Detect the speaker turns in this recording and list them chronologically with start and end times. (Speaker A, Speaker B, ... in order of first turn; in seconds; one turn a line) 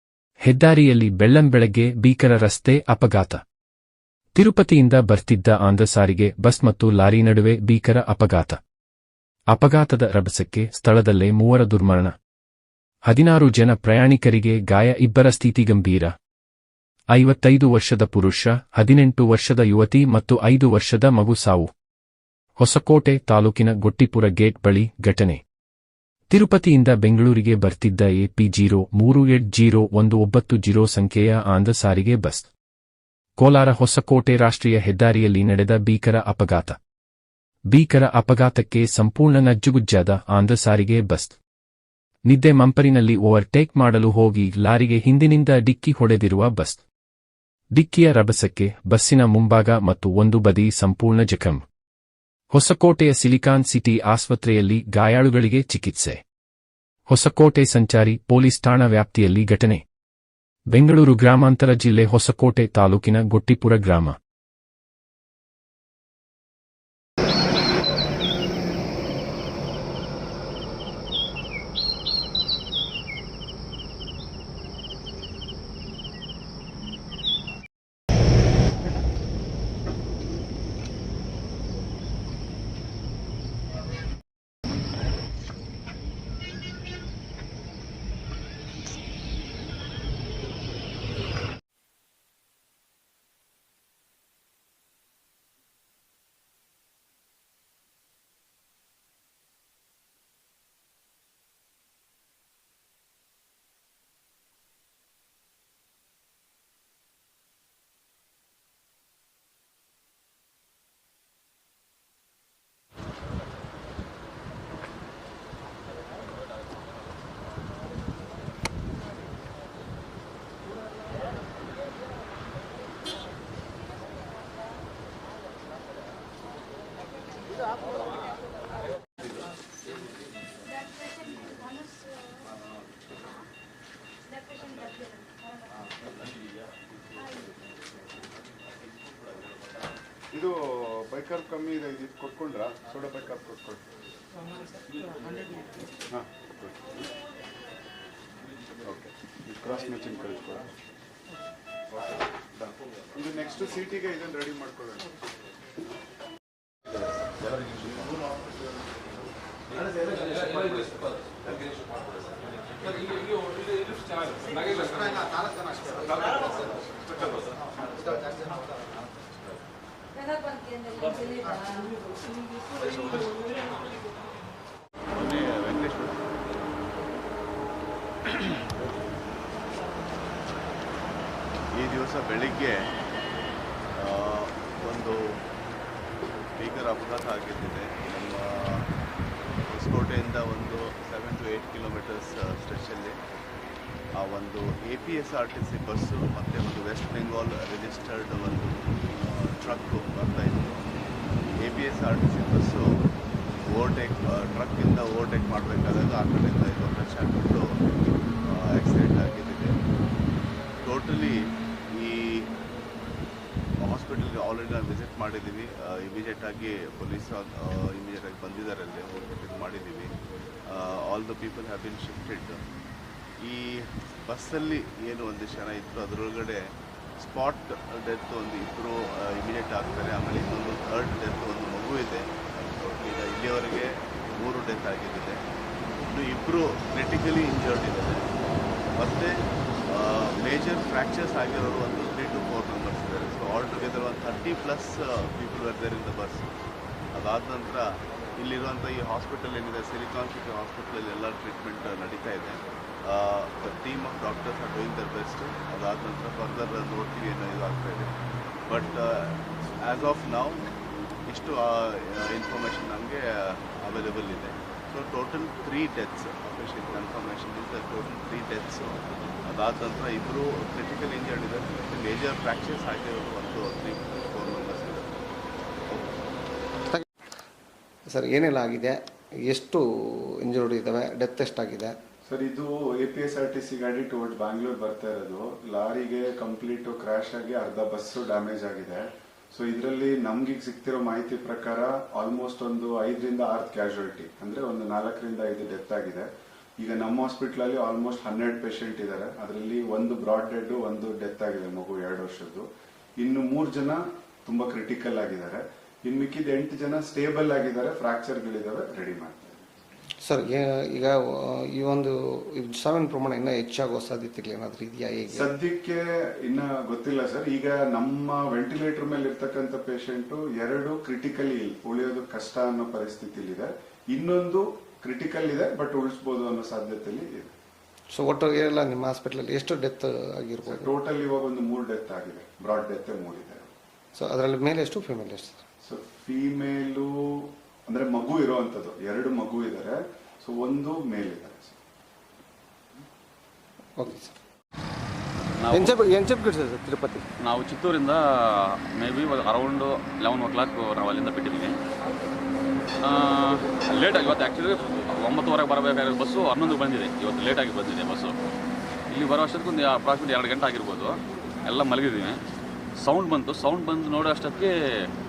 Speaker A: 0.5-3.4
Speaker A: 4.4-8.6
Speaker A: 9.5-12.1
Speaker A: 13.1-16.1
Speaker A: 17.1-21.7
Speaker A: 22.6-25.4
Speaker A: 26.3-32.5
Speaker A: 33.4-36.8
Speaker A: 37.7-41.4
Speaker A: 42.3-46.8
Speaker A: 47.8-51.6
Speaker A: 52.5-56.2
Speaker A: 57.1-59.8
Speaker A: 60.7-64.2
Speaker B: 140.3-143.9
Speaker B: 146.1-146.9
Speaker B: 148.8-150.7
Speaker B: 152.6-155.1
Speaker C: 175.1-176.2
Speaker C: 178.2-178.7
Speaker C: 181.7-182.9
Speaker C: 183.9-185.3
Speaker C: 186.6-188.9
Speaker C: 189.7-193.2
Speaker C: 194.2-200.8
Speaker C: 201.6-202.9
Speaker C: 203.6-207.7
Speaker C: 208.4-209.8
Speaker C: 210.8-212.5
Speaker C: 213.8-220.1
Speaker C: 220.7-222.6
Speaker C: 223.4-235.4
Speaker C: 236.1-238.2
Speaker C: 238.9-246.4
Speaker C: 247.1-258.1
Speaker C: 258.7-260.6
Speaker C: 261.3-275.2
Speaker D: 278.1-279.8
Speaker D: 280.4-281.9
Speaker B: 282.2-302.7
Speaker B: 303.2-309.6
Speaker D: 310.3-311.1
Speaker D: 311.8-315.5
Speaker B: 315.3-327.5
Speaker D: 328.2-330.9
Speaker B: 330.6-333.7
Speaker D: 334.1-335.6
Speaker B: 335.8-341.8
Speaker D: 344.0-344.3
Speaker E: 345.6-346.0
Speaker D: 345.7-347.2
Speaker E: 347.4-351.8
Speaker E: 353.0-358.3
Speaker E: 359.1-362.4
Speaker E: 363.0-365.1